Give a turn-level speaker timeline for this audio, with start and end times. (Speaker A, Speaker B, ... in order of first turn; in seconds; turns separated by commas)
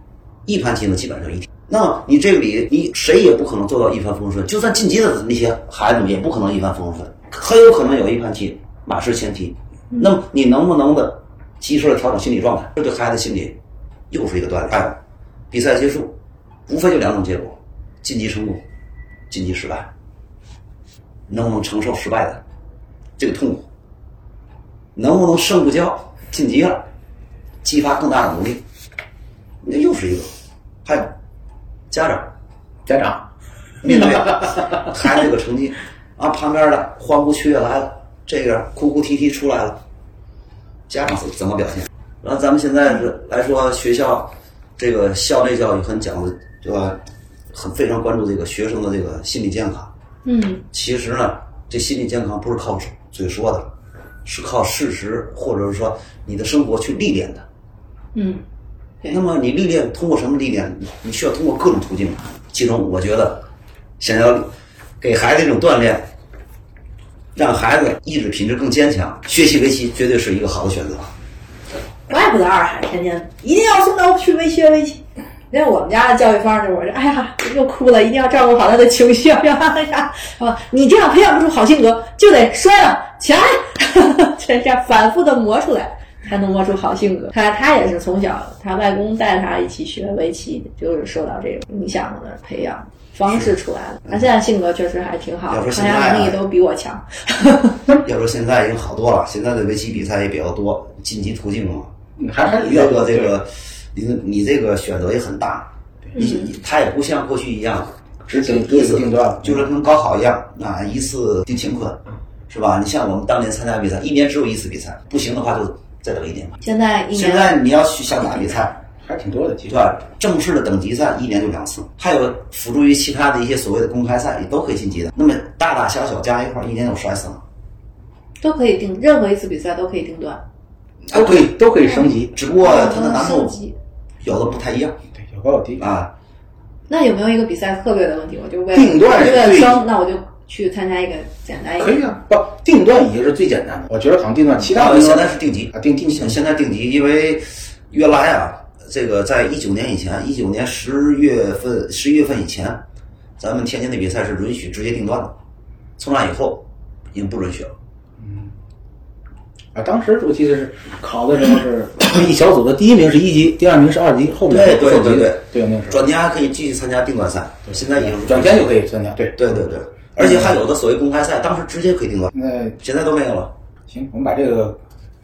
Speaker A: 0.5-13.6, Speaker A: 14.1-15.0, Speaker A: 15.5-16.1, Speaker A: 16.7-18.6, Speaker A: 19.3-19.9, Speaker A: 21.3-22.4, Speaker A: 23.2-23.6, Speaker A: 24.9-26.8, Speaker A: 27.6-28.6, Speaker A: 29.6-30.3, Speaker A: 30.8-31.1, Speaker A: 31.9-32.3, Speaker B: 32.9-33.3, Speaker A: 33.8-39.8, Speaker B: 34.2-34.6, Speaker A: 40.9-47.0, Speaker A: 47.5-49.9, Speaker C: 50.2-50.6, Speaker A: 50.7-53.7, Speaker A: 54.2-57.4, Speaker C: 58.1-58.4, Speaker A: 59.0-63.4, Speaker A: 64.0-66.1, Speaker A: 67.3-71.1, Speaker C: 72.1-97.9, Speaker A: 95.5-96.4, Speaker A: 97.9-101.9, Speaker B: 102.2-103.3, Speaker A: 102.5-116.6, Speaker B: 108.2-109.7, Speaker C: 116.6-117.5, Speaker A: 117.1-118.8, Speaker B: 119.0-119.8, Speaker A: 119.6-127.4, Speaker C: 128.4-130.4, Speaker A: 131.1-131.5, Speaker B: 131.1-132.4, Speaker A: 132.2-133.6, Speaker C: 132.6-133.7, Speaker A: 134.2-135.0, Speaker B: 135.1-135.8, Speaker A: 135.8-136.1, Speaker C: 136.9-142.2, Speaker B: 138.7-139.7, Speaker A: 139.1-139.8, Speaker B: 141.8-146.4, Speaker A: 144.6-152.8, Speaker A: 153.4-155.3, Speaker A: 156.0-157.7, Speaker B: 158.2-158.5, Speaker B: 159.7-166.0, Speaker A: 164.5-168.8, Speaker B: 167.7-169.6, Speaker A: 169.3-173.5, Speaker B: 170.2-170.5, Speaker B: 172.3-172.8, Speaker B: 173.9-174.8